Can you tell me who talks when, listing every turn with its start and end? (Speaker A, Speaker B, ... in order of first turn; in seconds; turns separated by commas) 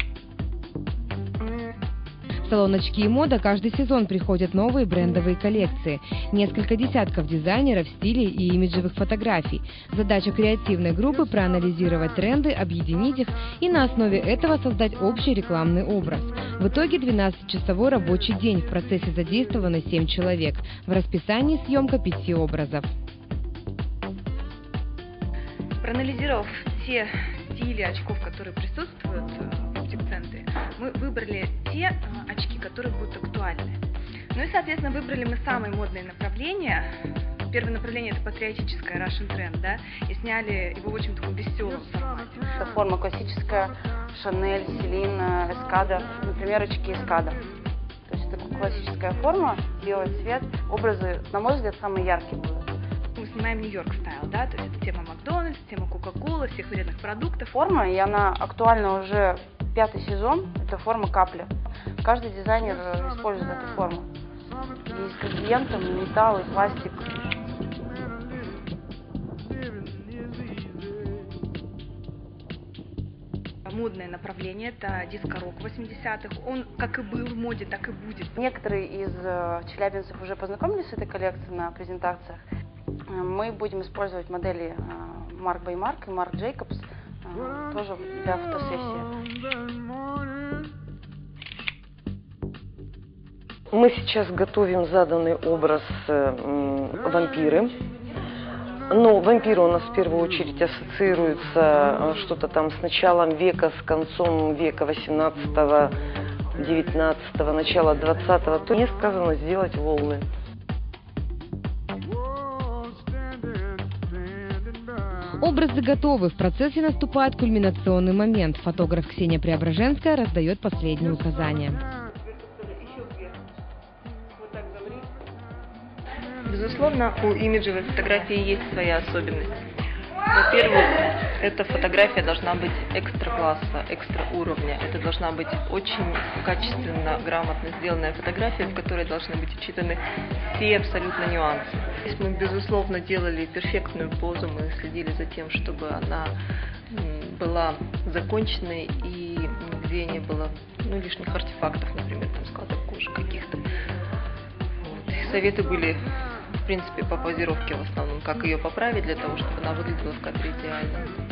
Speaker A: 2.4-22.9, Speaker B: 25.8-33.8, Speaker B: 34.3-36.9, Speaker B: 37.5-42.5, Speaker C: 42.6-47.4, Speaker C: 48.1-52.7, Speaker B: 53.1-57.6, Speaker C: 57.5-61.5, Speaker C: 62.0-64.1, Speaker C: 64.8-67.2, Speaker B: 73.7-78.4, Speaker C: 78.4-82.4, Speaker C: 83.1-89.1, Speaker D: 93.7-97.8, Speaker D: 98.9-105.9, Speaker D: 106.6-110.2, Speaker A: 115.4-121.8, Speaker E: 126.5-129.6, Speaker E: 130.3-146.3, Speaker E: 146.9-153.6, Speaker E: 154.8-156.0, Speaker E: 156.7-161.1